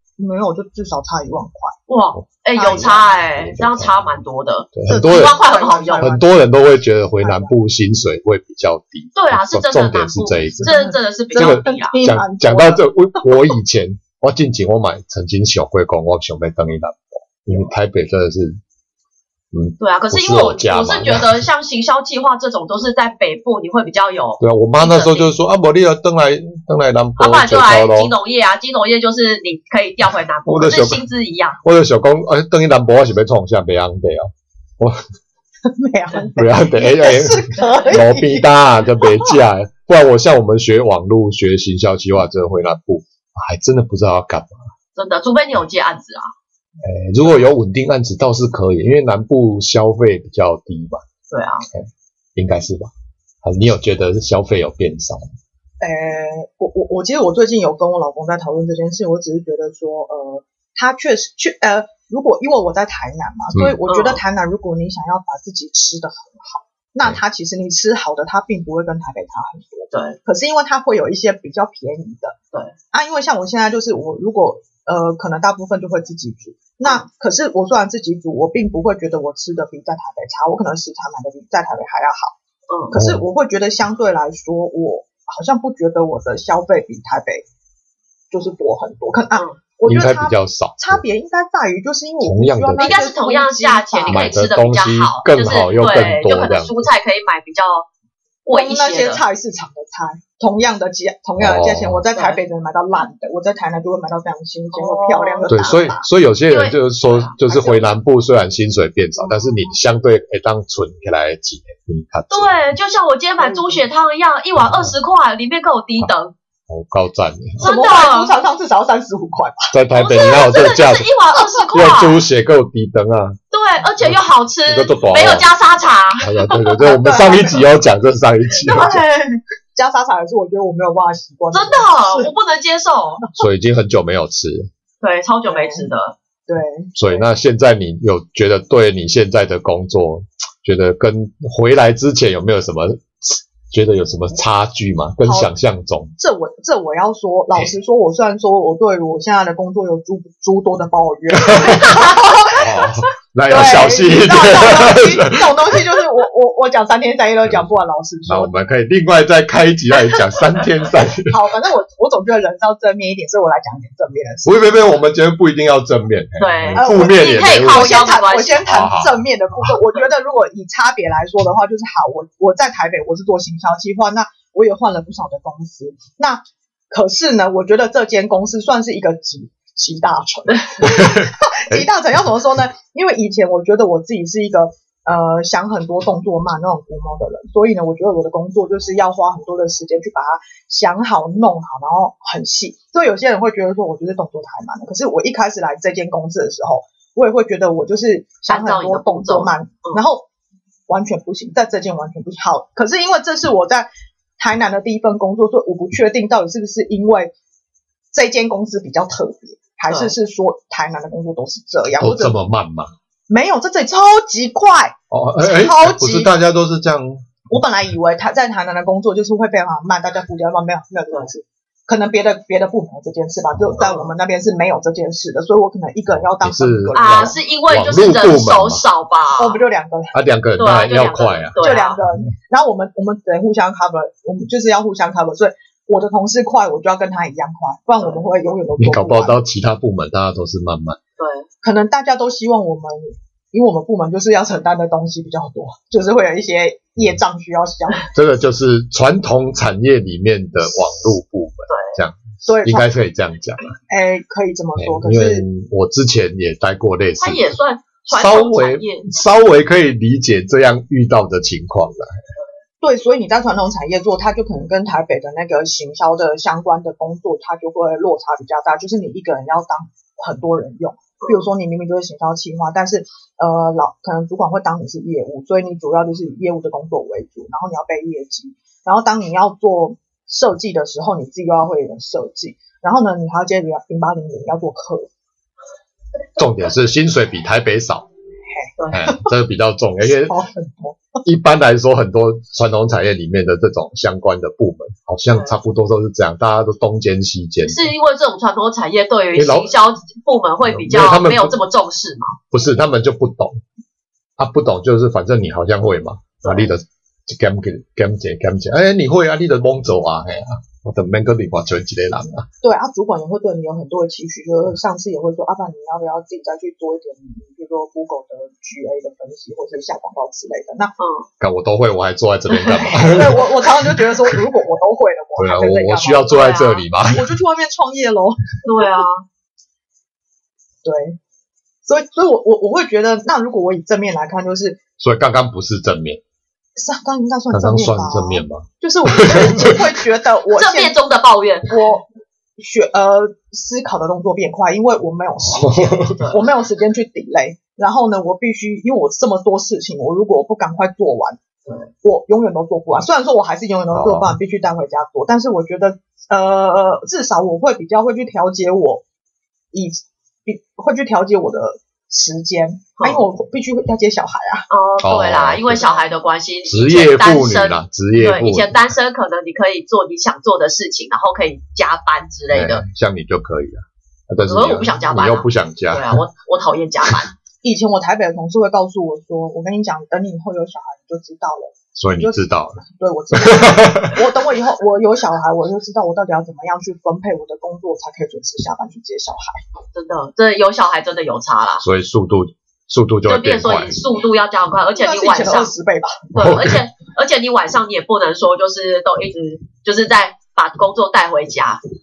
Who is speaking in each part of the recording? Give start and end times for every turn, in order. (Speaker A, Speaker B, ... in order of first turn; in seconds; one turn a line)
Speaker A: 0.2-1.8
Speaker B: 1.9-6.1
Speaker C: 2.2-4.2
Speaker A: 2.5-3.0
Speaker C: 4.7-5.4
Speaker A: 4.9-6.3
Speaker C: 6.0-10.7
Speaker A: 7.2-7.5
Speaker B: 9.1-12.0
Speaker A: 10.6-13.5
Speaker C: 11.3-18.6
Speaker C: 19.5-21.4
Speaker B: 19.8-25.3
Speaker C: 24.4-28.1
Speaker B: 27.2-31.6
Speaker C: 30.4-31.1
Speaker C: 31.6-35.0
Speaker A: 35.6-38.5
Speaker C: 36.3-44.7
Speaker A: 39.1-39.4
Speaker B: 45.0-46.3
Speaker C: 46.8-51.0
Speaker B: 51.3-51.7
Speaker C: 51.7-52.9
Speaker C: 53.4-55.3
Speaker A: 55.8-72.3
Speaker B: 63.9-64.2
Speaker B: 69.9-70.2
Speaker A: 72.9-82.3
Speaker A: 82.9-87.4
Speaker C: 82.9-83.2
Speaker A: 88.3-94.4
Speaker C: 89.8-91.0
Speaker C: 92.2-93.0
Speaker B: 92.8-97.9
Speaker C: 94.1-96.9
Speaker B: 98.5-99.2
Speaker A: 98.5-106.1
Speaker C: 101.4-102.1
Speaker B: 102.1-102.4
Speaker B: 104.7-105.8
Speaker C: 105.5-112.5
Speaker B: 106.5-107.3
Speaker A: 107.4-107.8
Speaker B: 112.3-116.3
Speaker A: 113.4-113.8
Speaker C: 114.6-114.9
Speaker C: 116.7-117.7
Speaker B: 117.6-118.4
Speaker A: 117.6-119.7
Speaker C: 119.7-121.1
Speaker B: 120.0-122.2
Speaker C: 121.7-123.4
Speaker B: 123.5-126.5
Speaker C: 124.0-125.5
Speaker C: 126.2-129.0
Speaker A: 126.8-127.7
Speaker A: 128.7-132.3
Speaker B: 128.7-129.1
Speaker B: 131.5-133.2
Speaker C: 133.4-134.7
Speaker B: 135.0-136.1
Speaker A: 135.5-135.9
Speaker A: 136.5-137.2
Speaker C: 136.9-146.1
Speaker A: 145.2-145.5
Speaker A: 146.2-158.5
Speaker C: 151.4-155.8
Speaker B: 151.6-152.2
Speaker C: 158.3-161.5
Speaker A: 161.2-164.7
Speaker C: 164.4-169.8
Speaker B: 166.4-168.8
Speaker A: 166.8-200.2
Speaker C: 180.8-181.8
Speaker B: 198.5-200.0
Speaker A: 200.9-207.3
Speaker A: 208.1-212.3
Speaker B: 209.9-210.1
Speaker C: 212.0-212.9
Speaker A: 213.3-216.3
Speaker C: 215.1-217.4
Speaker A: 217.5-227.4
Speaker B: 223.8-224.1
Speaker C: 226.1-228.8
Speaker B: 226.9-229.6
Speaker A: 229.4-230.2
Speaker C: 230.1-232.2
Speaker B: 230.6-232.0
Speaker A: 231.6-239.4
Speaker C: 238.8-241.0
Speaker B: 241.2-241.5
Speaker A: 241.6-248.1
Speaker C: 248.1-253.8
Speaker B: 251.7-252.0
Speaker A: 252.4-252.9
Speaker A: 253.9-255.4
Speaker C: 254.8-257.4
Speaker B: 257.2-259.1
Speaker C: 258.1-262.2
Speaker A: 262.8-285.1
Speaker C: 286.4-288.1
Speaker A: 288.5-289.3
Speaker C: 288.9-290.3
Speaker A: 290.0-291.2
Speaker C: 291.2-297.9
Speaker B: 295.3-295.6
Speaker B: 297.6-302.4
Speaker C: 299.3-299.7
Speaker C: 300.6-301.6
Speaker C: 302.5-303.6
Speaker C: 304.4-312.5
Speaker B: 306.4-306.7
Speaker A: 312.6-320.9
Speaker B: 321.0-321.3
Speaker C: 321.4-324.4
Speaker B: 322.6-323.0
Speaker A: 322.9-328.6
Speaker C: 325.4-327.3
Speaker B: 326.3-326.8
Speaker B: 328.6-329.2
Speaker A: 330.8-331.2
Speaker A: 331.8-334.8
Speaker C: 335.0-336.2
Speaker A: 336.8-340.9
Speaker C: 337.5-340.0
Speaker B: 340.5-341.8
Speaker A: 341.6-342.1
Speaker A: 342.6-351.4
Speaker C: 345.5-346.1
Speaker B: 346.1-346.4
Speaker A: 352.0-359.0
Speaker C: 353.9-354.4
Speaker A: 359.7-364.7
Speaker B: 363.0-363.2
Speaker B: 364.7-372.8
Speaker C: 365.0-366.0
Speaker C: 366.6-368.9
Speaker C: 372.5-376.2
Speaker B: 374.4-377.3
Speaker A: 377.6-389.6
Speaker C: 382.0-382.8
Speaker C: 383.3-384.2
Speaker B: 389.9-391.8
Speaker C: 391.8-394.0
Speaker B: 393.2-395.7
Speaker A: 394.9-396.3
Speaker B: 396.3-401.8
Speaker C: 396.4-396.8